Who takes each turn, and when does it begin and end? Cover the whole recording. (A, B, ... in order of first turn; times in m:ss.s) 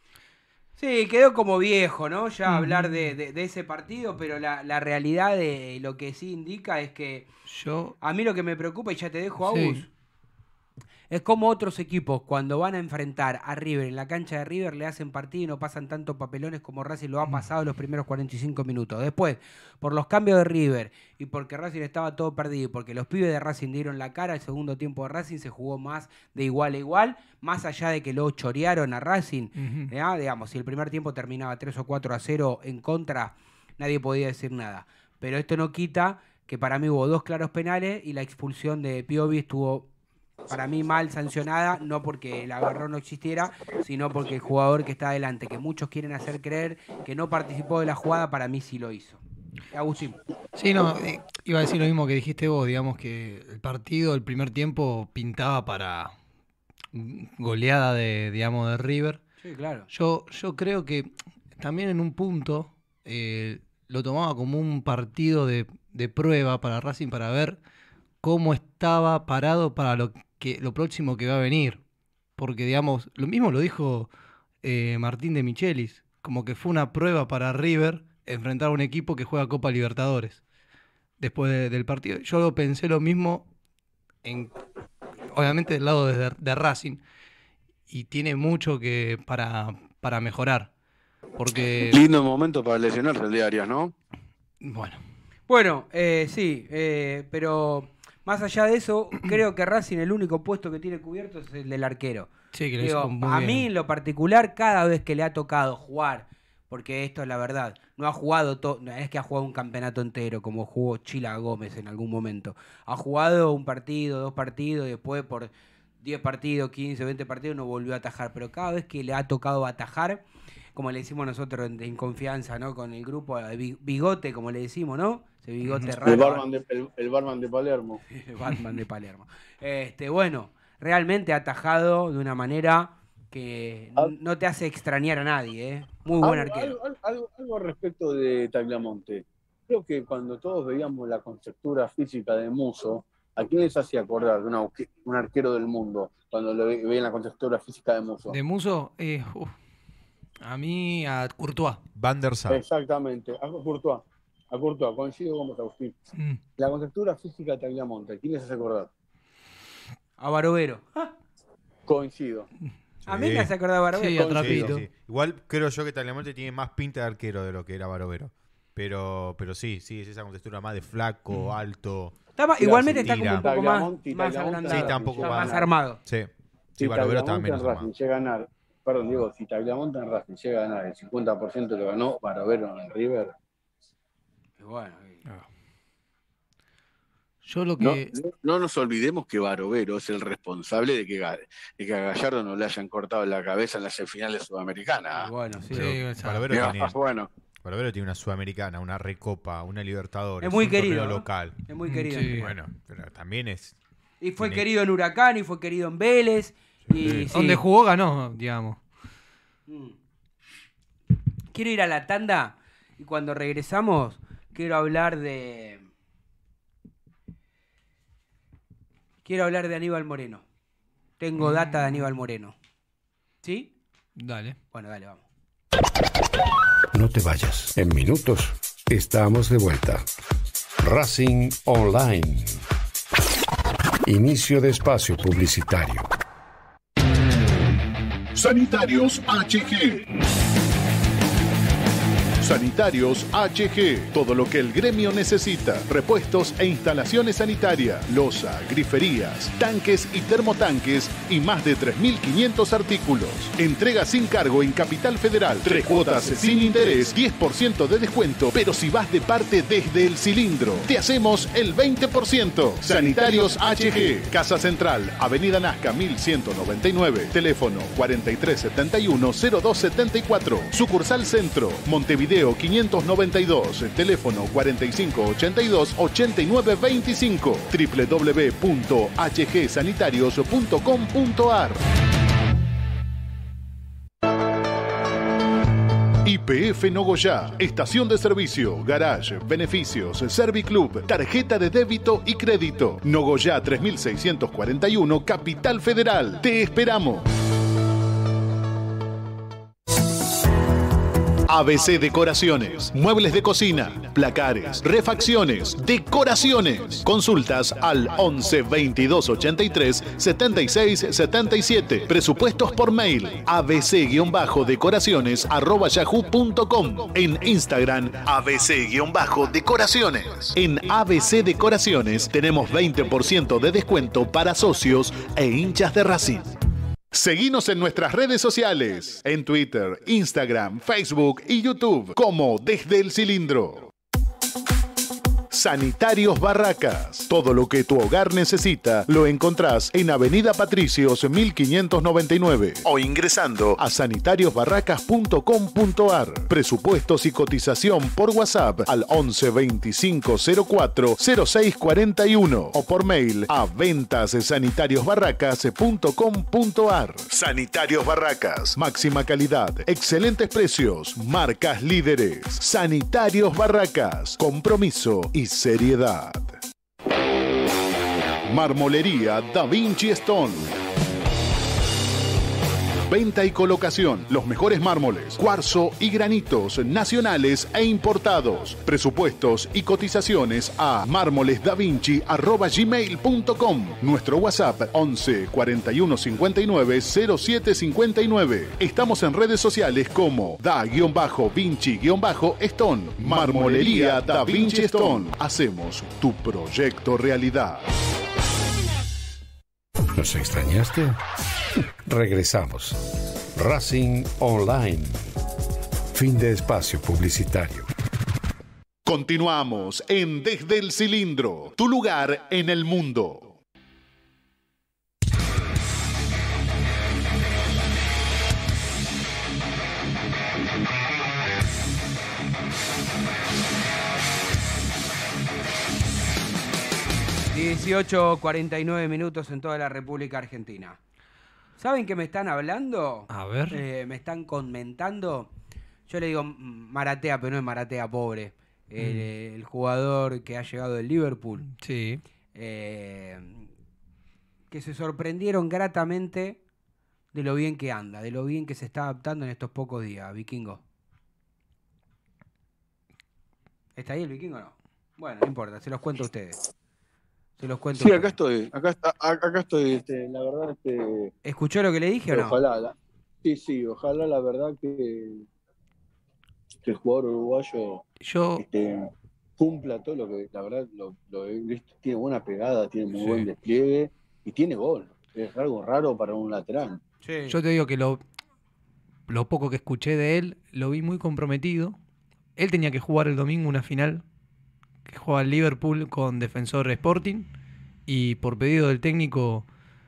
0:00.8-0:07.3 A
0:02.5-0:03.1 B
0:07.5-0:07.9 B
0:08.0-0:09.9 A
0:09.4-0:09.8 B
0:11.1-0:39.9 A
0:29.6-0:29.9 B
0:40.5-0:50.2 A
0:50.6-0:56.1 B
0:56.9-0:59.2 B
0:59.4-0:59.9 A
0:59.9-1:07.6 B
1:08.2-1:11.8 B
1:12.4-1:14.1 B
1:14.6-1:20.4 B
1:21.2-1:23.5 B
1:24.2-1:24.5 B
1:25.3-1:27.0 B
1:27.9-1:30.7 B
1:31.3-1:32.0 B
1:31.8-1:33.9 C
1:34.6-1:35.0 B
1:35.5-1:55.5 A
1:42.5-1:43.7 B
1:56.0-2:00.2 A
2:00.7-2:06.4 A
2:05.6-2:05.9 B
2:06.0-2:08.0 C
2:08.1-2:16.8 A
2:16.2-2:28.4 C
2:28.3-2:29.6 B
2:30.4-2:31.8 B
2:32.0-2:32.6 D
2:32.5-2:36.0 C
2:36.6-2:38.9 C
2:40.2-2:41.1 A
2:41.9-2:42.5 C
2:43.1-2:43.5 D
2:43.1-2:44.3 A
2:43.9-2:44.8 B
2:44.1-2:44.7 C
2:44.4-2:52.2 D
2:52.4-2:56.0 A
2:52.6-2:55.7 C
2:52.9-2:53.4 D
2:54.7-2:57.9 D
2:56.8-3:03.3 C
3:04.6-3:05.2 A
3:07.4-3:08.1 B
3:07.8-3:15.3 C
3:15.2-3:16.0 A
3:15.7-3:16.6 B
3:15.7-3:17.0 D
3:16.5-3:17.3 C
3:17.6-3:21.6 D
3:20.4-3:22.5 A
3:21.9-3:22.4 B
3:22.3-3:23.8 D
3:24.2-3:27.6 A
3:24.4-3:24.6 D
3:26.8-3:27.3 D
3:27.3-3:28.8 B
3:29.7-3:30.0 A
3:31.5-3:35.8 A
3:39.2-3:40.4 A
3:41.2-3:42.6 A
3:41.4-3:41.7 B
3:43.4-3:43.7 A
3:44.2-3:44.6 B
3:44.7-3:45.2 A
3:46.9-3:50.0 E
3:50.8-3:52.6 E
3:54.1-3:56.1 E
3:58.3-4:00.0 F
4:02.4-4:41.8 F
4:15.8-4:17.1 C
4:23.0-4:24.0 C
4:46.2-4:57.2 F
5:01.5-5:26.5 F
5:27.1-5:33.9 F
5:35.5-6:06.6 F
6:08.4-6:10.7 F
6:13.1-6:37.8 F
6:40.2-6:41.2 E
6:42.1-6:43.0 E
6:43.6-6:45.2 E
6:46.1-6:47.9 E
6:49.0-6:53.6 F
7:07.5-7:11.0 A
7:11.8-7:15.5 A
7:13.3-7:13.8 B
7:16.1-7:21.7 A
7:19.0-7:19.3 B
7:21.8-7:22.2 B
7:22.5-7:23.7 A
7:24.7-7:26.6 A
7:27.3-7:30.8 A
7:34.0-7:36.6 A
7:37.6-7:38.4 A
7:38.0-7:41.3 C
7:41.4-7:42.6 A
7:42.3-7:45.4 C
7:46.8-7:48.0 C
7:48.2-7:48.6 B
7:48.6-7:57.0 C
7:53.1-7:53.5 B
7:57.2-7:57.6 A
7:57.5-7:58.2 B
7:59.3-8:02.0 B
8:02.6-8:04.2 B
8:05.1-8:07.5 B
8:08.1-8:09.6 B